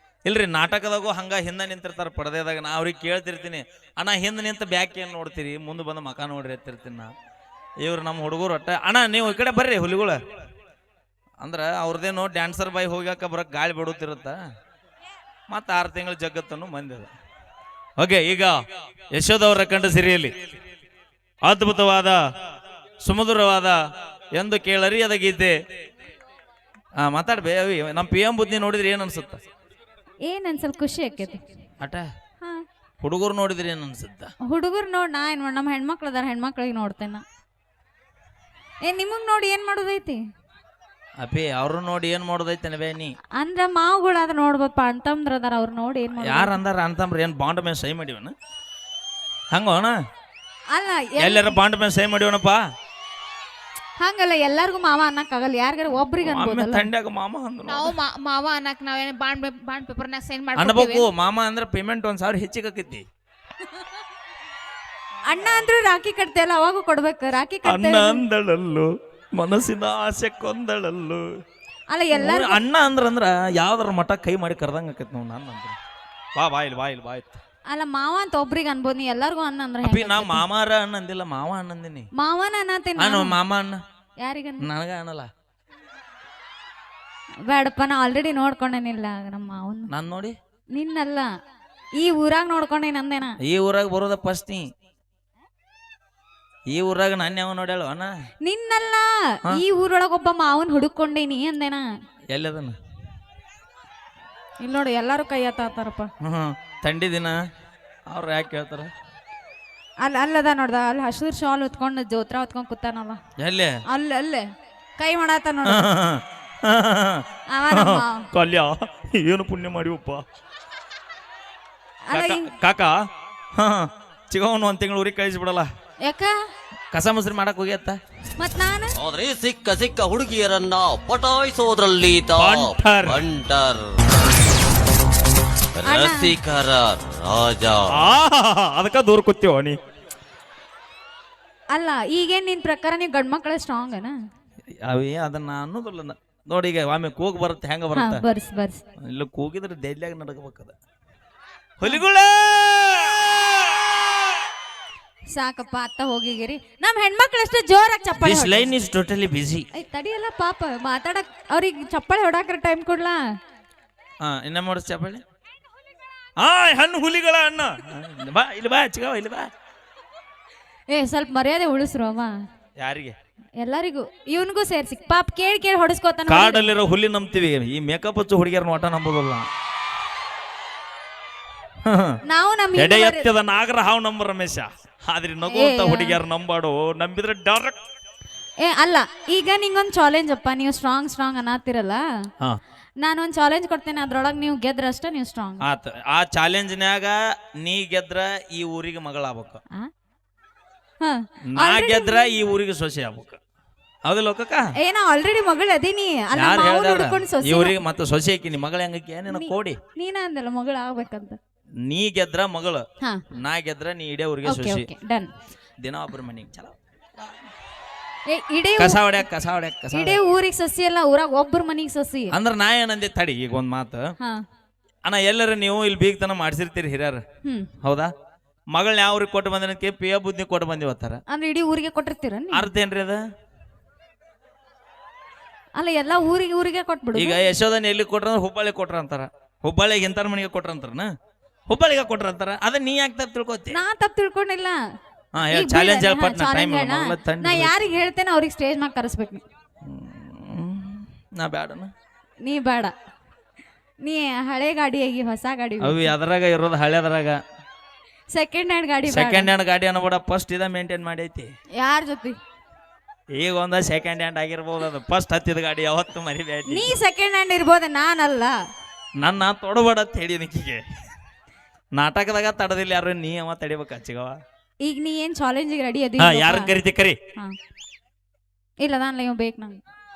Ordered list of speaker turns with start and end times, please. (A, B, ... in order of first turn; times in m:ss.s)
0:00.2-0:07.1 A
0:07.8-0:10.2 A
0:11.4-0:14.4 A
0:15.5-0:17.1 A
0:18.0-0:18.6 A
0:19.1-0:20.3 A
0:21.4-0:22.2 A
0:23.0-0:23.8 A
0:24.3-0:25.6 A
0:27.0-0:29.4 A
0:30.2-0:31.4 B
0:31.8-0:32.1 A
0:33.0-0:34.3 A
0:34.5-0:37.2 B
0:38.8-0:40.2 B
0:41.2-0:43.1 A
0:43.4-0:46.6 B
0:46.2-0:48.4 A
0:49.5-0:50.0 A
0:50.7-0:51.6 B
0:51.2-0:52.6 A
0:54.0-0:56.9 B
0:56.2-0:57.9 A
0:57.7-1:01.1 C
1:00.6-1:03.0 A
1:05.3-1:08.2 B
1:07.6-1:11.3 A
1:11.9-1:12.6 B
1:12.1-1:15.8 A
1:16.3-1:17.4 A
1:17.7-1:20.4 B
1:19.8-1:22.1 A
1:22.1-1:23.4 B
1:23.0-1:23.8 A
1:24.2-1:24.7 B
1:24.6-1:25.3 A
1:27.5-1:29.9 B
1:29.9-1:30.4 A
1:30.7-1:31.3 B
1:32.0-1:33.4 B
1:33.4-1:34.6 A
1:36.7-1:38.1 A
1:38.4-1:41.8 B
1:42.3-1:42.8 A
1:44.6-1:46.1 B
1:46.2-1:47.4 A
1:48.1-1:48.9 A
1:50.0-1:53.2 B
1:53.4-1:53.8 A
1:53.9-1:54.4 B
1:55.0-1:55.9 B
1:55.7-2:00.2 A
1:57.5-1:58.3 B
2:02.0-2:02.5 B
2:02.1-2:03.0 A
2:03.6-2:05.7 A
2:06.0-2:06.3 B
2:06.9-2:08.0 A
2:08.4-2:09.0 B
2:09.0-2:14.0 D
2:12.3-2:13.3 A
2:15.8-2:17.9 D
2:15.8-2:16.3 B
2:17.9-2:19.8 A
2:21.7-2:24.1 B
2:24.8-2:28.2 A
2:27.9-2:28.8 B
2:29.0-2:30.7 A
2:31.8-2:34.0 A
2:35.3-2:38.7 B
2:38.2-2:39.6 A
2:39.7-2:43.2 B
2:44.2-2:45.2 A
2:46.4-2:49.5 A
2:50.9-2:52.3 B
2:52.8-2:53.2 A
2:53.6-2:56.7 B
2:56.3-2:59.5 A
3:01.8-3:02.2 A
3:02.3-3:03.2 B
3:02.8-3:07.8 A
3:05.5-3:06.2 B
3:08.6-3:12.0 B
3:13.0-3:15.6 B
3:15.6-3:19.6 A
3:21.0-3:22.4 B
3:21.5-3:23.4 A
3:24.0-3:24.7 A
3:24.8-3:27.8 B
3:26.3-3:29.8 A
3:29.3-3:31.4 B
3:31.8-3:32.8 A
3:33.4-3:34.9 A
3:34.4-3:35.3 B
3:35.8-3:37.5 A
3:38.3-3:39.0 B
3:38.8-3:40.2 A
3:39.9-3:42.3 B
3:42.3-3:44.0 A
3:45.0-3:47.2 A
3:47.8-3:48.1 A
3:48.7-3:51.2 A
3:51.3-3:52.7 B
3:52.5-3:53.2 A
3:55.8-3:57.4 B
3:57.1-4:01.1 A
4:01.7-4:03.8 A
4:03.7-4:04.8 B
4:05.3-4:07.7 A
4:05.5-4:09.4 B
4:09.8-4:11.9 A
4:12.4-4:12.9 B
4:14.0-4:16.1 B
4:15.8-4:17.4 A
4:18.3-4:19.5 B
4:19.1-4:21.5 A
4:21.8-4:22.4 B
4:23.3-4:26.9 A
4:26.7-4:28.5 B
4:29.2-4:30.8 A
4:31.9-4:34.4 A
4:34.8-4:36.7 B
4:36.2-4:37.2 A
4:38.8-4:39.8 B